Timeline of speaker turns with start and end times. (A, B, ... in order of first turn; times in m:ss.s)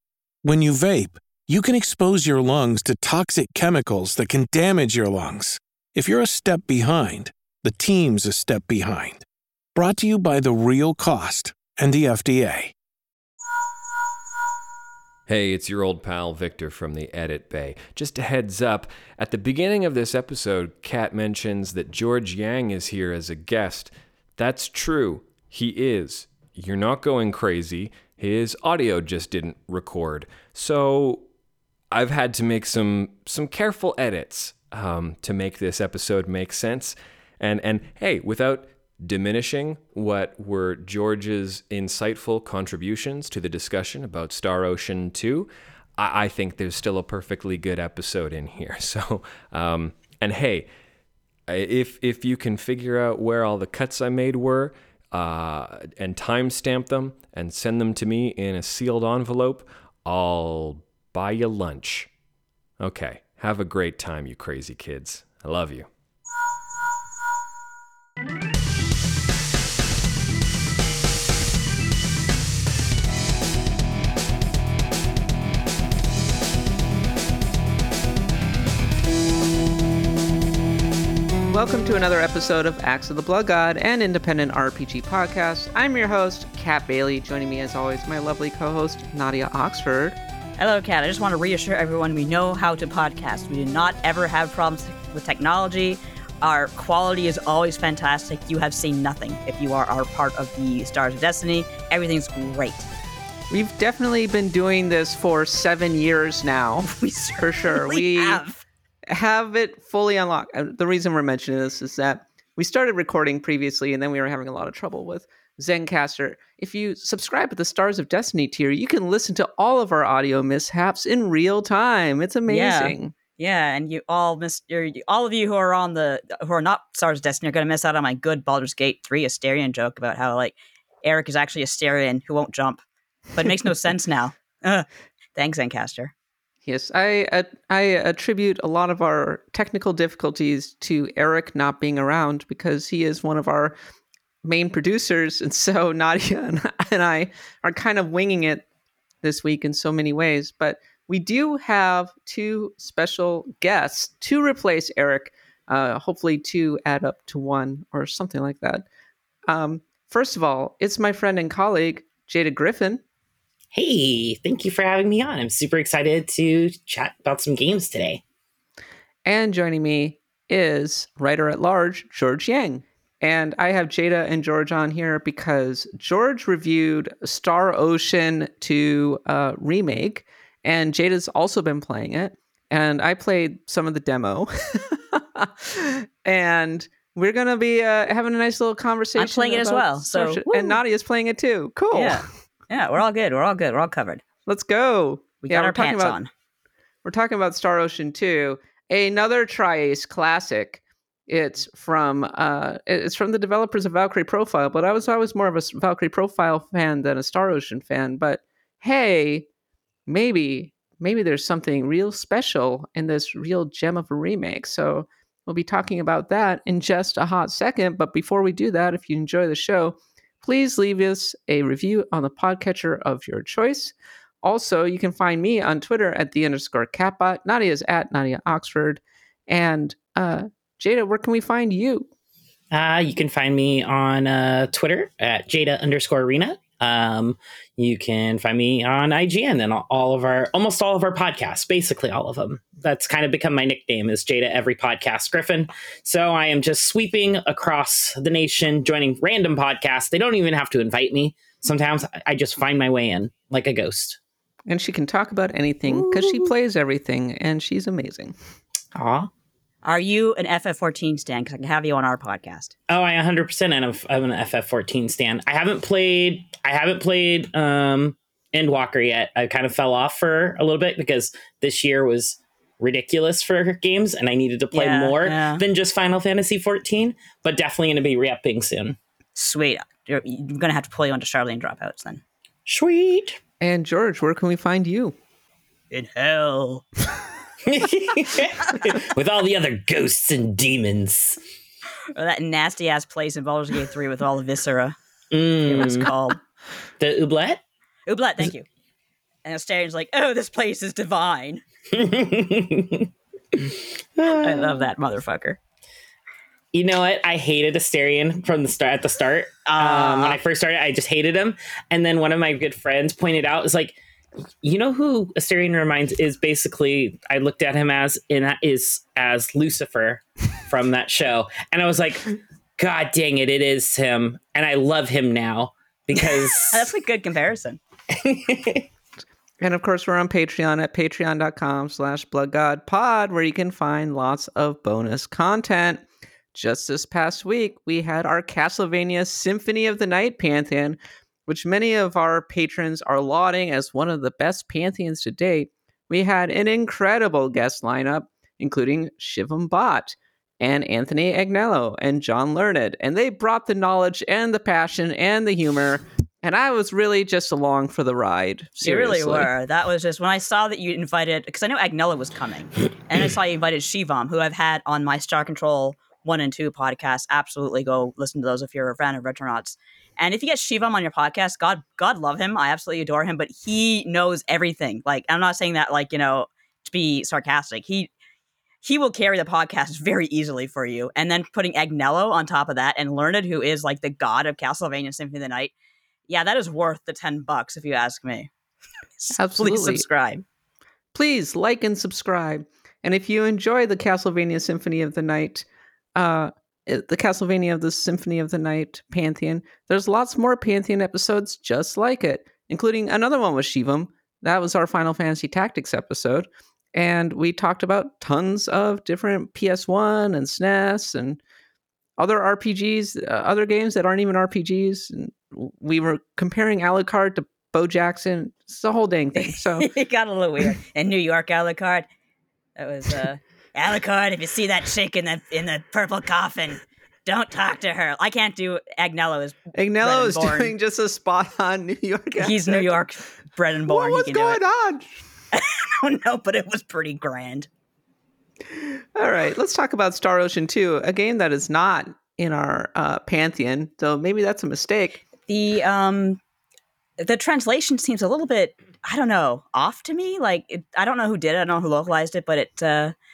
0:00.4-0:12.7 A
0:15.3-0:31.2 B
0:31.9-0:50.7 B
0:51.5-1:02.1 B
1:02.8-1:05.9 B
1:21.5-1:30.2 C
1:30.6-1:42.9 D
1:43.5-1:48.4 C
1:46.8-1:48.6 D
1:49.1-2:03.1 C
2:02.5-2:12.8 D
2:13.3-2:16.1 D
2:16.6-2:23.7 C
2:24.4-2:28.6 C
2:29.2-2:38.8 C
2:39.5-2:43.0 C
2:43.7-2:48.2 E
2:49.2-3:12.3 C
3:09.2-3:10.8 D
3:11.9-3:14.2 D
3:14.4-3:16.2 C
3:15.4-3:16.3 D
3:17.0-3:29.5 C
3:30.1-3:52.1 C
3:52.7-4:14.2 E
4:14.6-4:18.3 C
4:19.8-4:22.7 D
4:22.9-4:39.0 E
4:34.7-4:35.6 D
4:39.4-4:42.2 D
4:42.6-4:43.4 E
4:43.6-4:45.2 C
4:45.9-4:46.8 D
4:47.6-4:51.4 E
4:52.1-4:55.0 D
4:55.3-4:56.1 E
4:55.6-4:56.4 D
4:57.0-4:57.6 E
4:58.1-4:58.6 D
4:59.4-5:01.6 D
5:01.9-5:04.9 E
5:04.3-5:05.6 D
5:06.7-5:14.0 E
5:09.6-5:10.4 D
5:14.6-5:26.9 E
5:26.2-5:27.8 D
5:28.1-5:28.9 E
5:29.6-5:59.5 C
5:58.8-6:18.1 D
6:18.8-6:25.7 D
6:26.3-6:28.5 D
6:29.2-6:30.4 D
6:29.3-6:30.0 C
6:31.1-6:51.4 C
6:52.2-6:59.9 C
6:59.4-7:02.1 D
7:02.8-7:10.7 D
7:09.7-7:13.0 C
7:12.4-7:14.6 D
7:13.9-7:15.1 C
7:15.5-7:17.7 D
7:18.7-7:25.2 C
7:25.4-7:26.4 D
7:27.2-7:33.1 D